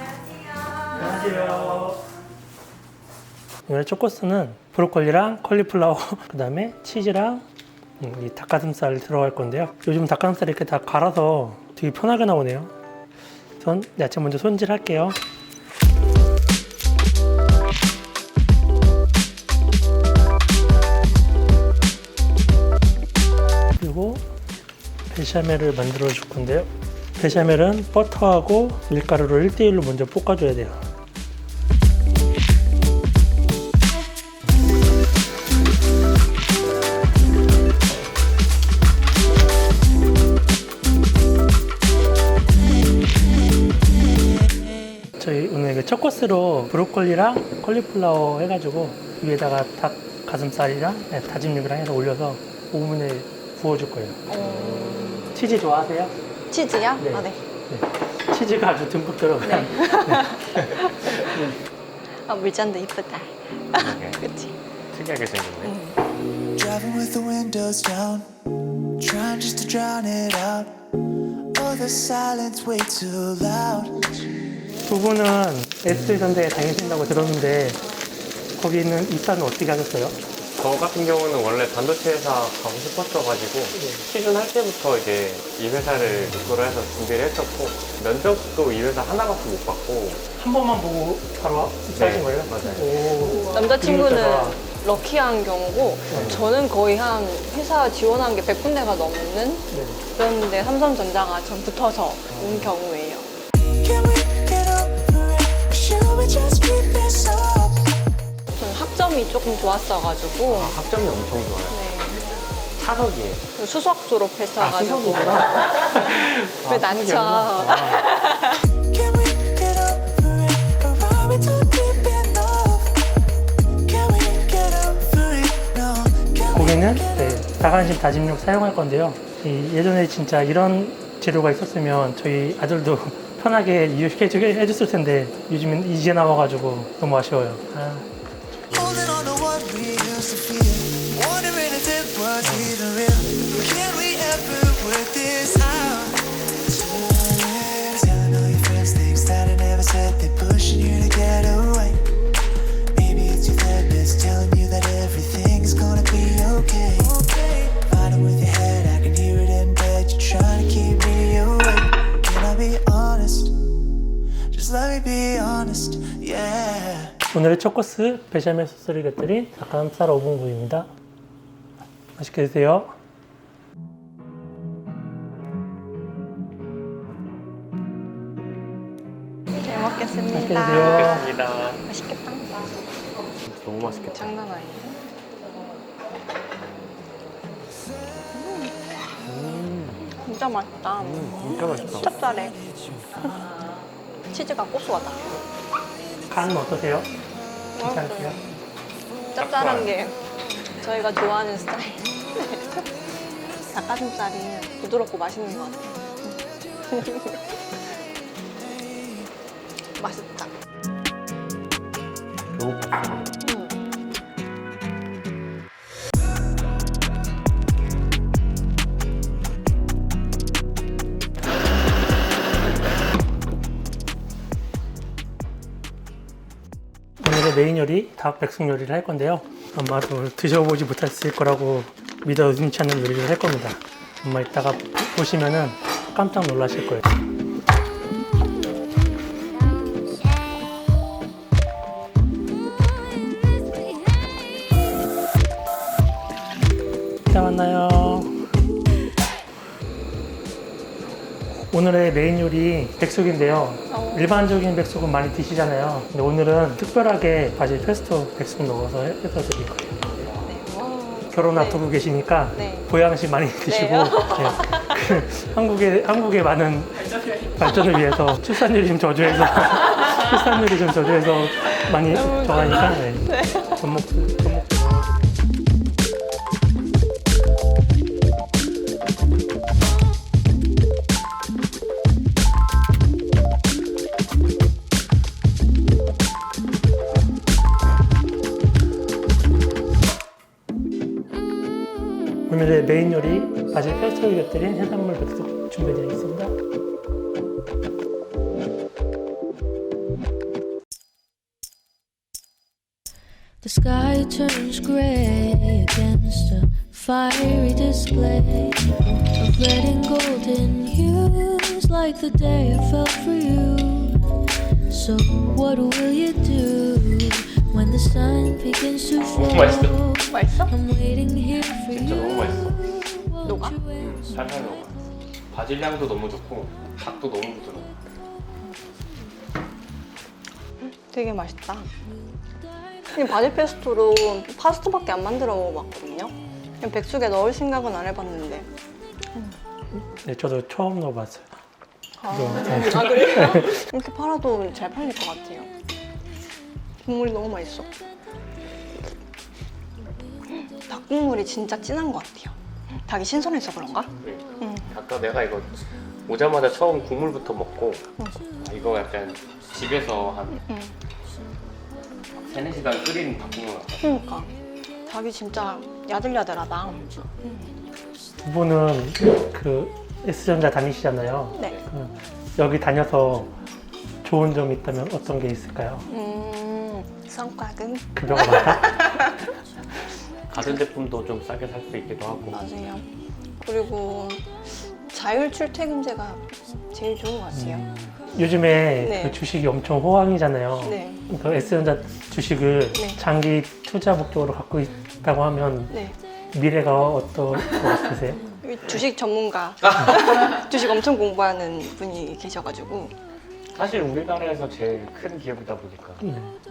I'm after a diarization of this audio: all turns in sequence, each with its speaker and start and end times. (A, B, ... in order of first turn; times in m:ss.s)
0:00.9-0:02.0 A
0:03.6-0:07.4 A
0:08.0-0:12.7 A
0:13.6-0:15.2 A
0:23.8-0:24.2 A
0:25.1-0:30.8 A
0:45.2-0:54.2 A
0:54.3-0:55.0 B
0:54.4-0:55.3 C
0:55.3-0:56.1 A
0:56.5-0:57.4 B
0:57.0-1:01.5 A
0:59.4-1:01.5 B
1:02.3-1:04.6 B
1:03.7-1:04.2 C
1:04.9-1:05.7 C
1:05.6-1:06.0 B
1:06.6-1:08.3 D
1:09.0-1:10.8 D
1:11.5-1:14.3 D
1:14.9-1:17.8 A
1:18.6-1:20.2 A
1:20.5-1:30.2 C
1:23.7-1:24.0 A
1:30.4-1:34.6 A
1:31.9-1:33.0 C
1:33.2-1:43.3 B
1:36.1-1:36.4 A
1:36.1-1:36.5 C
1:39.7-1:40.0 A
1:42.3-1:42.7 C
1:43.6-1:47.9 D
1:48.5-1:50.8 B
1:50.4-1:51.8 C
1:51.7-1:52.4 B
1:52.7-1:53.5 C
1:53.6-1:58.6 B
1:54.6-1:58.0 C
1:58.8-2:03.0 D
2:03.8-2:07.4 D
2:06.5-2:18.1 A
2:18.7-2:32.0 D
2:22.4-2:22.8 A
2:32.9-2:43.6 D
2:44.5-2:47.2 D
2:47.3-2:50.9 A
2:52.2-2:52.9 A
2:59.6-3:03.2 B
3:00.3-3:01.2 A
3:00.9-3:01.8 C
3:03.4-3:04.3 C
3:04.1-3:05.0 B
3:08.3-3:08.7 B
3:09.2-3:10.1 C
3:10.2-3:12.6 B
3:11.0-3:12.1 C
3:14.3-3:15.4 B
3:16.3-3:17.1 A
3:17.7-3:18.4 B
3:17.8-3:18.4 A
3:19.3-3:20.2 B
3:19.4-3:19.9 C
3:20.8-3:22.8 B
3:23.7-3:27.6 B
3:30.0-3:30.5 B
3:32.6-3:33.4 C
3:33.4-3:33.8 B
3:47.2-3:57.1 A
4:07.3-4:08.3 A
4:11.6-4:20.0 A
4:13.9-4:14.3 B
4:20.2-4:20.5 C
4:20.4-4:21.8 B
4:21.3-4:35.3 A
4:22.5-4:22.9 B
4:23.7-4:24.9 B
4:31.7-4:33.7 B
4:52.5-4:56.6 A
5:03.6-5:14.2 E
5:14.9-5:24.3 E
5:19.2-5:20.0 C
5:20.2-5:20.7 B
5:21.9-5:22.8 C
5:23.4-5:23.8 B
5:23.9-5:28.0 C
5:30.8-5:31.9 B
5:33.1-5:38.7 B
5:39.9-5:41.6 A
5:42.2-5:45.7 B
5:42.3-5:43.7 A
5:47.0-5:47.9 B
5:50.5-5:54.9 B
5:54.2-6:00.6 C
5:58.2-5:58.5 B
6:00.5-6:00.9 B
6:02.3-6:04.0 C
6:04.0-6:04.5 B
6:05.0-6:07.7 B
6:08.4-6:13.5 A
6:14.2-6:16.1 A
6:16.1-6:19.4 B
6:18.2-6:19.0 A
6:20.5-6:22.6 C
6:22.5-6:23.1 B
6:23.6-6:27.8 B
6:27.5-6:36.0 A
6:29.0-6:29.4 B
6:30.8-6:31.2 B
6:32.9-6:33.2 B
6:35.9-6:36.2 B
6:36.5-6:38.4 A
6:38.6-6:43.2 B
6:43.7-6:46.2 C
6:46.2-6:46.5 A